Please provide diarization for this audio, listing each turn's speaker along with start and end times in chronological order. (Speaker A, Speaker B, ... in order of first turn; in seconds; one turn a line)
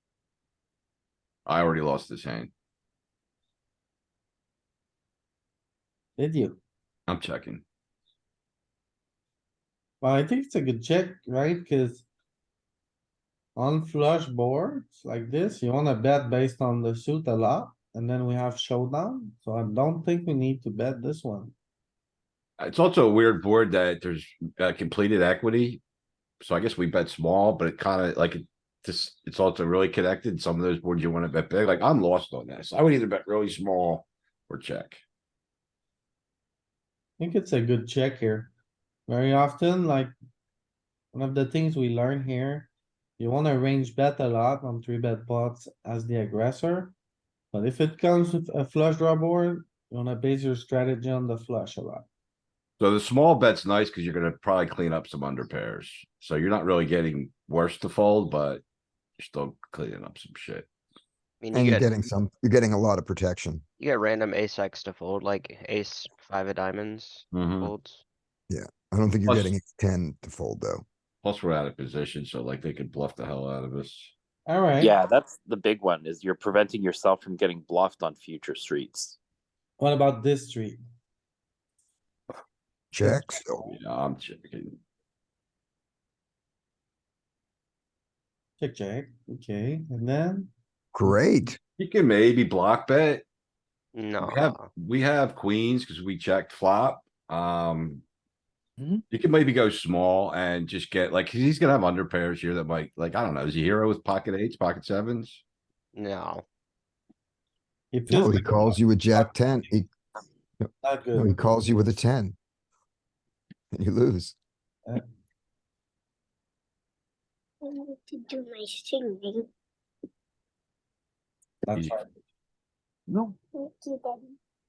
Speaker A: 1.5-2.5
Speaker B: 6.2-6.6
Speaker A: 7.1-7.6
Speaker B: 10.0-12.1
Speaker B: 13.6-21.6
Speaker A: 22.6-25.8
Speaker A: 26.4-35.0
Speaker B: 37.2-38.5
Speaker B: 39.1-40.1
Speaker B: 41.1-46.9
Speaker B: 47.5-52.0
Speaker A: 52.8-58.6
Speaker A: 59.2-60.7
Speaker C: 61.4-61.9
Speaker D: 61.5-63.6
Speaker C: 63.8-68.0
Speaker A: 67.3-67.7
Speaker D: 68.5-70.8
Speaker A: 69.3-69.5
Speaker A: 71.2-74.1
Speaker B: 74.5-75.0
Speaker E: 74.8-79.2
Speaker B: 79.8-80.8
Speaker D: 82.9-83.6
Speaker B: 83.0-83.8
Speaker A: 83.7-84.8
Speaker B: 88.6-90.5
Speaker D: 90.9-91.6
Speaker A: 91.8-93.2
Speaker C: 94.0-94.7
Speaker A: 94.2-98.0
Speaker A: 99.1-105.4
Speaker C: 106.0-106.4
Speaker B: 107.9-109.3
Speaker D: 108.1-109.9
Speaker D: 110.6-112.4
Speaker B: 110.8-111.4
Speaker D: 113.7-114.3
Speaker F: 117.7-119.5
Speaker B: 121.7-122.1
Speaker A: 123.1-123.4
Speaker F: 123.6-124.3